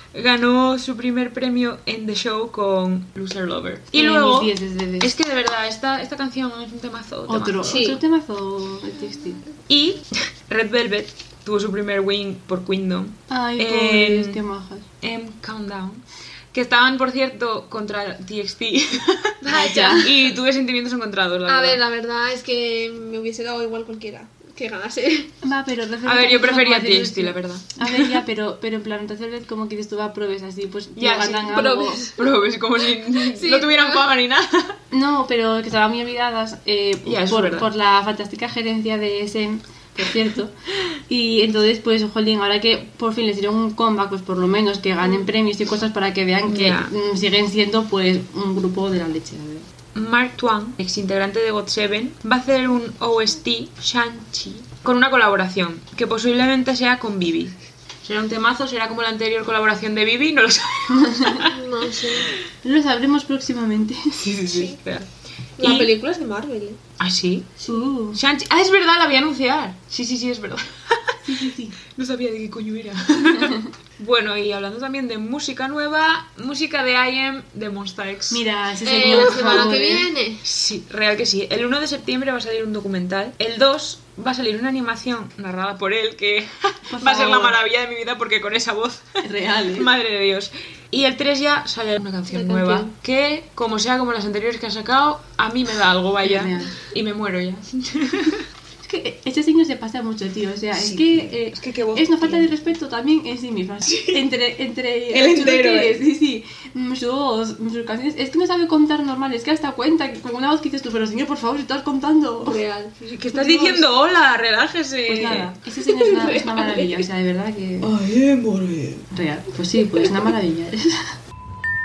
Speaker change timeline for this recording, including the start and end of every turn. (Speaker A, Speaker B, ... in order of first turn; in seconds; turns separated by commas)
Speaker A: 0.1-7.7, Speaker B: 3.9-5.2, Speaker B: 7.3-9.4, Speaker C: 7.6-8.0, Speaker A: 9.7-14.4, Speaker B: 13.3-14.9, Speaker A: 15.0-21.8, Speaker C: 19.4-20.1, Speaker B: 19.5-20.1, Speaker C: 21.5-25.3, Speaker B: 25.4-32.0, Speaker A: 26.1-28.2, Speaker A: 31.0-34.8, Speaker C: 31.5-32.2, Speaker C: 33.1-34.1, Speaker B: 34.9-40.5, Speaker A: 37.0-37.7, Speaker B: 41.1-49.7, Speaker A: 46.5-46.9, Speaker A: 50.0-61.6, Speaker B: 60.9-61.5, Speaker C: 61.5-62.3, Speaker B: 62.6-64.2, Speaker A: 64.1-65.1, Speaker C: 64.5-64.8, Speaker C: 65.6-66.8, Speaker A: 65.6-65.9, Speaker A: 67.0-67.5, Speaker B: 67.7-68.2, Speaker A: 68.1-71.2, Speaker B: 71.2-71.8, Speaker A: 72.0-78.4, Speaker B: 73.2-73.7, Speaker B: 78.3-80.1, Speaker C: 78.8-80.4, Speaker A: 79.0-79.7, Speaker A: 80.4-98.4, Speaker B: 86.9-87.6, Speaker B: 89.2-89.9, Speaker C: 92.3-92.9, Speaker B: 96.2-96.7, Speaker B: 98.8-112.6, Speaker A: 100.8-102.5, Speaker A: 103.8-104.3, Speaker A: 105.1-106.0, Speaker C: 112.4-112.9, Speaker A: 113.0-115.5, Speaker B: 113.3-113.9, Speaker B: 115.1-117.9, Speaker C: 115.8-117.1, Speaker A: 117.8-119.1, Speaker B: 119.1-121.1